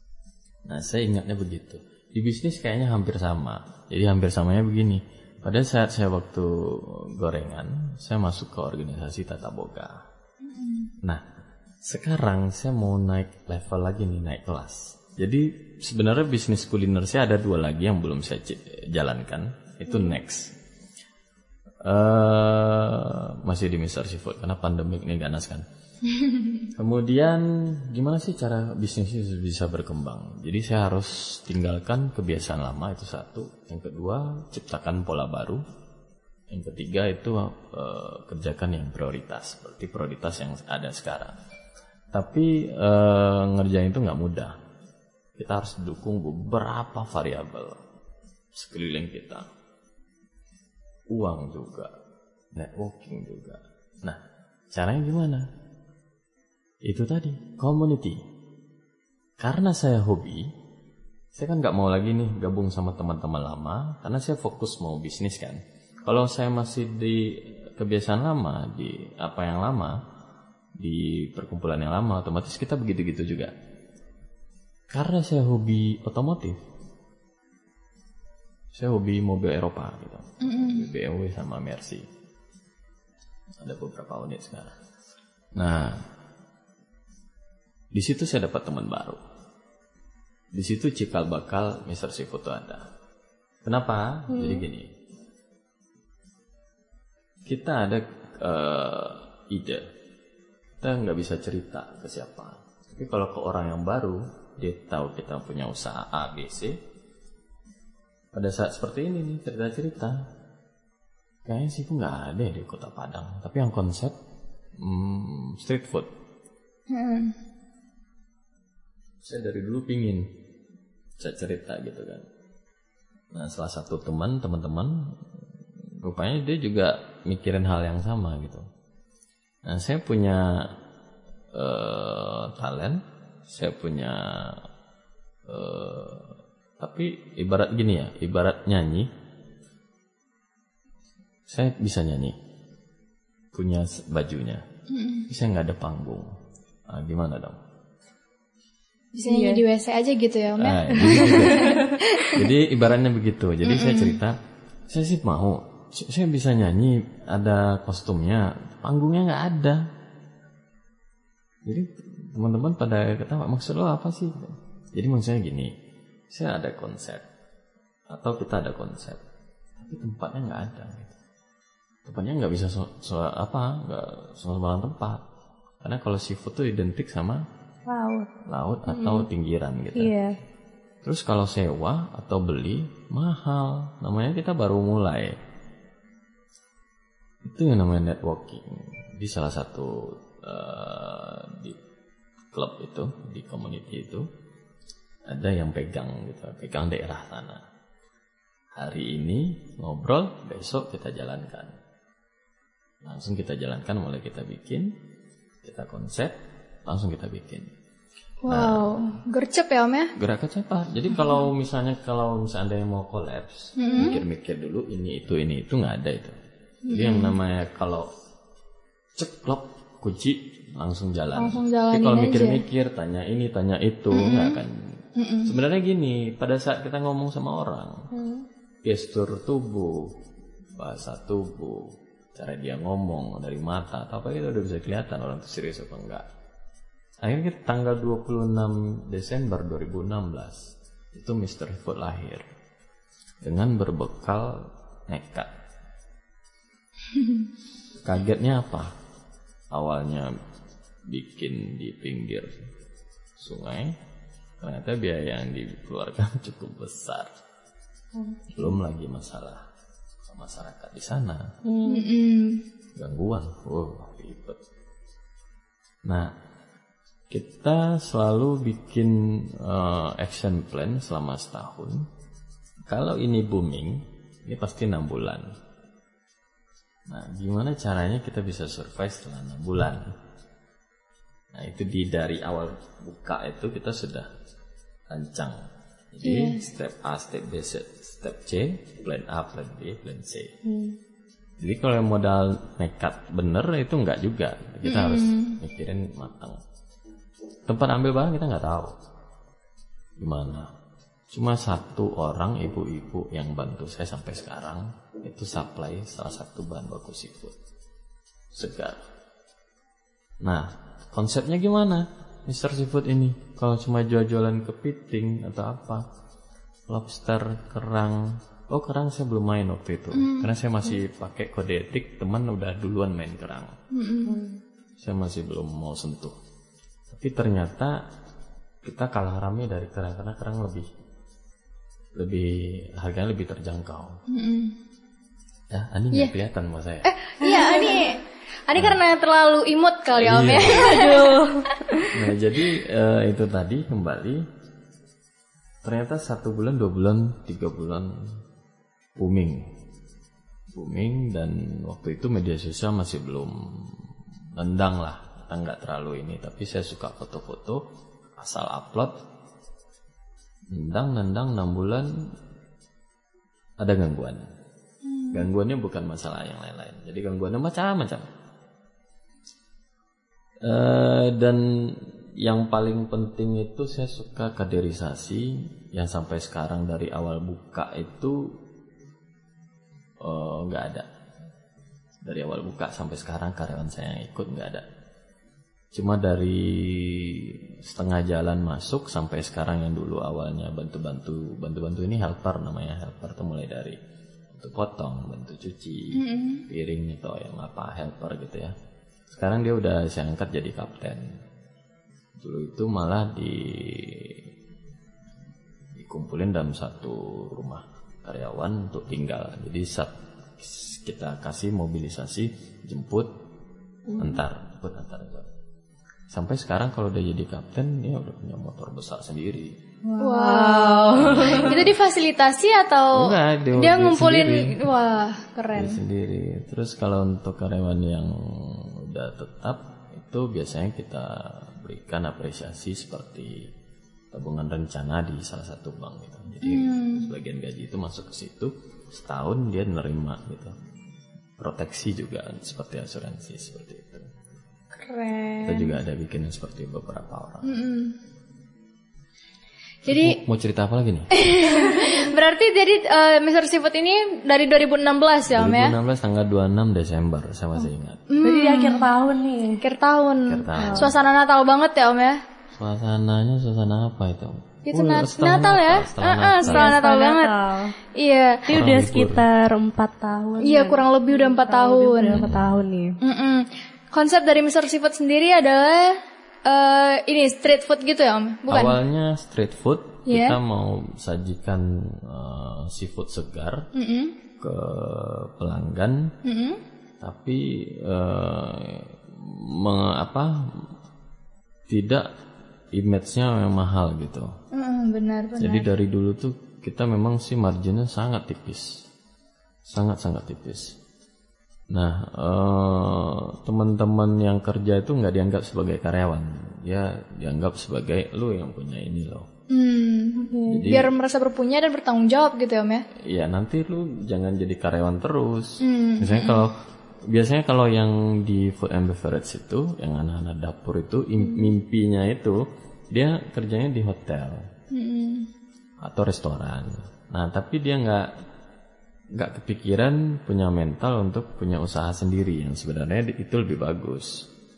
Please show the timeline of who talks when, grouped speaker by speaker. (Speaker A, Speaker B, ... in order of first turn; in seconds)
Speaker A: 0.7-10.0, 11.8-20.5, 21.8-25.6, 26.8-35.6, 36.5-41.3, 42.1-44.5, 45.4-47.8, 48.5-49.5, 51.1-51.9, 52.5-54.2, 54.7-55.5, 56.8-58.2, 59.4-60.5, 61.3-69.9, 70.8-73.5, 74.9-76.6, 78.7-82.0, 83.6-84.7, 85.5-86.0, 87.9-89.2, 90.5-92.8, 93.6-94.9, 97.5-99.8, 100.8-106.8, 108.3-110.2, 111.5-114.2, 114.8-116.1, 119.2-120.3, 121.2-122.2, 123.3-125.1, 126.0-128.6, 129.7-130.7, 131.5-134.6, 135.5-139.1, 141.5-142.3, 143.5-144.6, 145.3-146.3, 146.9-147.6, 150.6-154.4, 154.9-159.8, 161.7-165.7, 166.3-167.2, 168.1-169.2, 169.8-171.1, 172.0-175.2, 175.8-177.4, 178.5-180.1, 181.0-185.4, 187.4-191.8, 192.5-194.2, 195.3-197.6, 198.8-201.8, 203.0-204.9, 205.6-207.7, 208.5-209.1, 210.2-216.3, 216.9-218.1, 219.2-224.9, 225.4-228.0, 228.8-230.1, 230.8-236.2, 237.2-242.4, 243.4-245.5, 248.0-248.9, 249.7-250.3, 251.1-252.6, 253.4-253.9, 254.6-257.3, 258.6-259.6, 260.2-261.5, 262.9-264.6, 266.1-266.3, 267.3-272.1, 272.9-275.5, 277.1-280.1, 281.5-284.3, 285.1-285.6, 286.1-290.5, 291.6-296.6, 297.7-298.9, 300.2-300.7, 301.3-307.5, 308.5-309.0, 310.4-316.0, 316.9-323.7, 325.0-326.4, 327.1-328.0, 328.8-330.9, 332.2-334.2, 335.7-337.1, 340.2-341.0, 342.1-344.4, 345.8-348.2, 349.2-349.6, 350.7-353.9, 354.6-357.8, 358.4-359.1, 360.7-362.1, 363.8-364.4, 365.3-368.3, 370.6-378.5, 380.2-381.1, 382.2-384.8, 385.9-394.0, 394.5-398.7, 399.4-401.2, 402.4-404.4, 405.9-413.3, 414.2-415.5, 416.3-419.8, 421.2-421.9, 423.1-424.7, 425.7-433.7, 434.3-440.7, 441.6-444.2, 445.6-447.7, 450.1-451.3, 455.5-458.2, 460.4-461.1, 462.7-466.9, 468.7-469.4, 472.3-472.8, 478.7-483.9, 484.6-486.3, 487.2-490.7, 491.9-492.3, 492.9-494.5, 495.6-499.0, 499.9-501.0, 501.9-509.5, 510.7-511.1, 513.2-516.7, 517.3-524.7, 526.0-528.3, 529.3-534.5
Speaker B: 10.4-10.9, 26.1-26.6, 80.4-80.8, 116.9-117.3, 144.9-145.3, 149.1-152.4, 153.6-154.2, 208.4-210.1, 213.8-214.2, 216.9-217.3, 221.3-222.6, 224.1-224.6, 225.2-225.5, 261.9-262.6, 286.2-286.6, 294.8-295.6, 320.1-320.5, 323.9-324.3, 334.3-334.7, 337.0-338.2, 338.7-341.3, 365.0-365.4, 396.1-396.6, 420.2-426.0, 436.6-437.3, 444.9-445.9, 447.6-448.1, 450.1-450.4, 451.3-455.9, 458.3-459.1, 459.8-462.4, 464.9-467.6, 468.2-468.6, 470.6-472.4, 473.2-479.0, 480.3-480.6, 483.9-484.3, 486.4-486.8, 494.7-495.9, 509.7-513.0, 515.8-516.7, 524.9-525.5
Speaker C: 19.9-20.2, 94.3-94.6, 149.2-149.6, 151.0-152.0, 177.9-178.3, 178.9-179.3, 179.9-180.3, 213.9-214.2, 228.1-228.5, 258.1-258.8, 261.6-262.1, 290.6-290.9, 324.2-324.6, 337.4-338.0, 340.6-341.9, 414.1-414.4, 420.0-421.9, 458.4-459.8, 460.8-461.1, 466.6-467.9, 468.6-473.1, 510.5-510.9